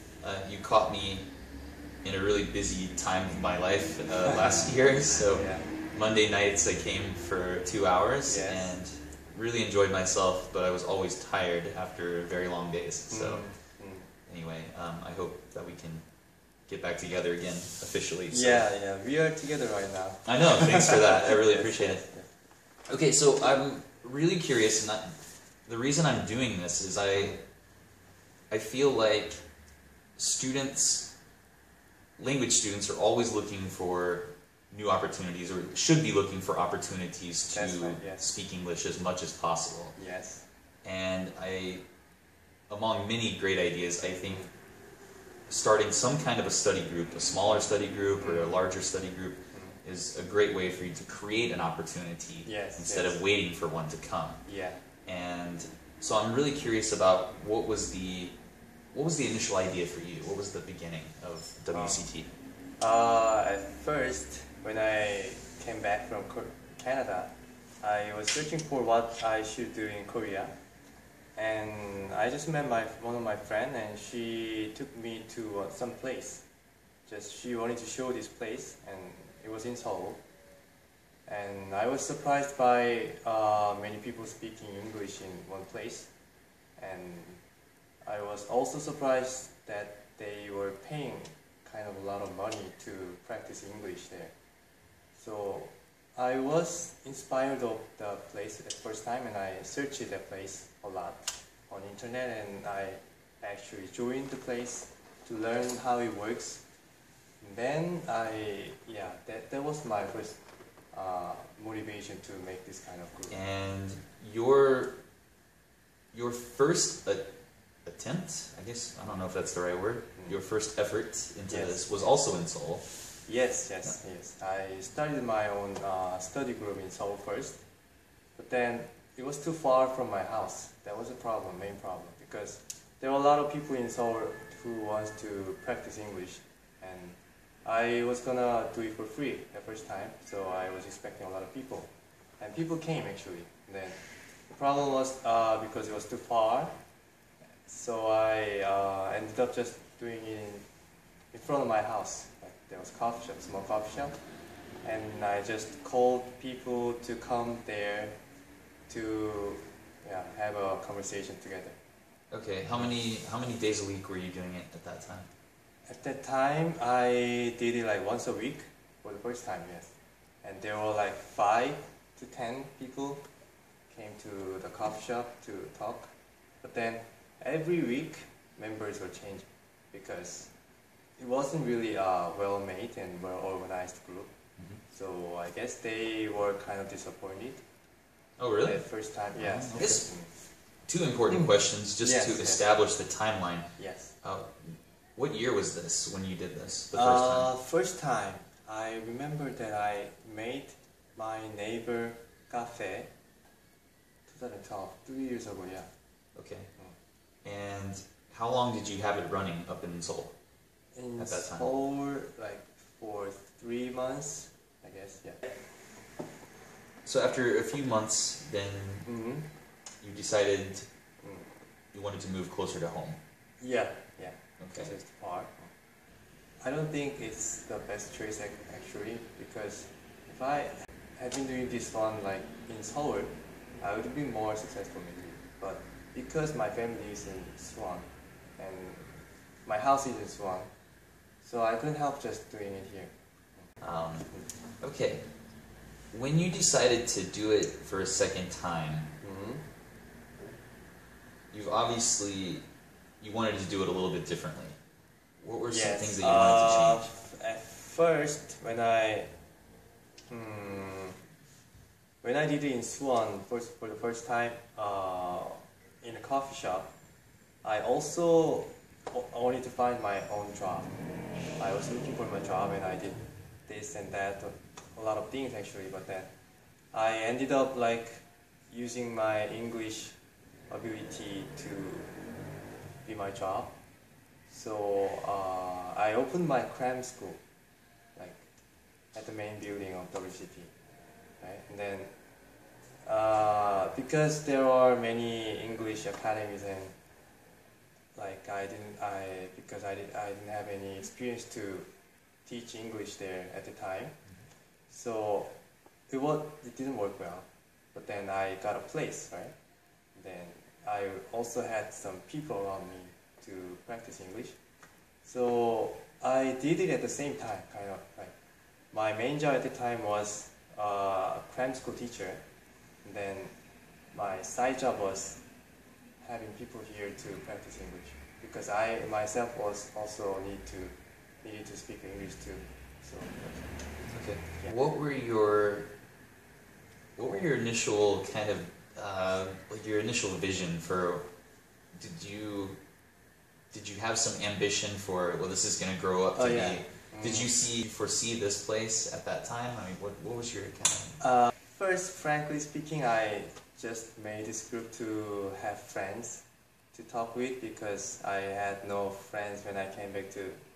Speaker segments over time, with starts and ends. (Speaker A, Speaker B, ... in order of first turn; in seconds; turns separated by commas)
Speaker A: 0.2-1.3, Speaker A: 2.0-13.5, Speaker B: 4.2-5.7, Speaker B: 8.2-8.8, Speaker B: 13.1-14.1, Speaker A: 14.3-16.0, Speaker A: 16.7-18.6, Speaker B: 18.3-22.3, Speaker A: 20.2-22.0, Speaker A: 22.9-27.4, Speaker A: 28.5-29.5, Speaker A: 30.1-31.2, Speaker A: 32.2-39.9, Speaker B: 37.5-38.3, Speaker B: 40.0-40.4, Speaker A: 40.8-41.8, Speaker A: 42.7-44.4, Speaker A: 45.5-54.4, Speaker B: 48.2-48.5, Speaker B: 49.5-49.8, Speaker B: 52.4-53.2, Speaker B: 54.4-54.8, Speaker A: 55.0-58.4, Speaker A: 58.9-62.3, Speaker B: 61.7-62.0, Speaker B: 62.8-70.5, Speaker B: 71.3-76.4, Speaker B: 77.0-80.2, Speaker B: 81.2-86.1, Speaker B: 86.8-87.4, Speaker B: 88.0-94.3, Speaker B: 95.2-106.6, Speaker B: 107.4-110.4, Speaker B: 110.9-113.4, Speaker A: 113.3-115.0, Speaker A: 116.1-117.3, Speaker A: 117.8-123.0, Speaker B: 120.2-120.4, Speaker B: 121.5-122.1, Speaker B: 123.2-127.6, Speaker B: 128.3-144.0, Speaker B: 144.5-146.7, Speaker B: 147.7-150.6, Speaker B: 151.3-154.2, Speaker B: 154.8-158.2, Speaker B: 158.9-161.8, Speaker A: 162.3-165.3, Speaker B: 165.9-173.2, Speaker B: 173.9-176.1, Speaker B: 176.6-180.5, Speaker B: 181.2-184.3, Speaker B: 184.9-187.6, Speaker A: 188.4-188.8, Speaker B: 188.6-190.3, Speaker A: 189.3-190.0, Speaker A: 190.8-193.7, Speaker B: 191.3-192.6, Speaker B: 193.8-194.1, Speaker A: 194.2-197.5, Speaker B: 196.9-203.1, Speaker B: 204.3-205.9, Speaker A: 206.3-206.7, Speaker A: 207.4-210.3, Speaker B: 210.9-215.5, Speaker A: 211.2-211.7, Speaker A: 217.0-219.1, Speaker B: 219.1-219.5, Speaker A: 220.0-220.9, Speaker B: 221.2-221.5, Speaker A: 221.9-223.2, Speaker B: 223.6-225.7, Speaker A: 224.6-224.9, Speaker B: 226.6-240.7, Speaker B: 241.4-243.7, Speaker A: 243.8-245.3, Speaker A: 246.1-249.1, Speaker B: 249.2-249.6, Speaker A: 251.5-252.6, Speaker A: 253.2-254.8, Speaker A: 255.4-257.1, Speaker B: 255.7-259.3, Speaker B: 260.3-261.2, Speaker B: 262.2-266.9, Speaker B: 267.6-270.9, Speaker B: 271.6-276.3, Speaker B: 276.9-280.2, Speaker B: 280.7-282.1, Speaker B: 283.0-283.7, Speaker B: 284.5-287.4, Speaker B: 288.1-288.5, Speaker B: 289.1-290.7, Speaker B: 291.4-292.1, Speaker B: 293.0-296.9, Speaker B: 298.1-301.9, Speaker B: 302.4-304.1, Speaker B: 304.9-305.5, Speaker B: 306.1-309.5, Speaker B: 310.1-314.6, Speaker B: 315.2-318.3, Speaker B: 318.9-322.4, Speaker B: 323.0-323.5, Speaker B: 324.1-325.4, Speaker B: 326.2-333.4, Speaker A: 333.4-335.9, Speaker A: 337.1-341.3, Speaker B: 337.2-337.4, Speaker A: 341.9-342.8, Speaker A: 343.7-351.2, Speaker B: 346.3-347.5, Speaker B: 351.2-360.6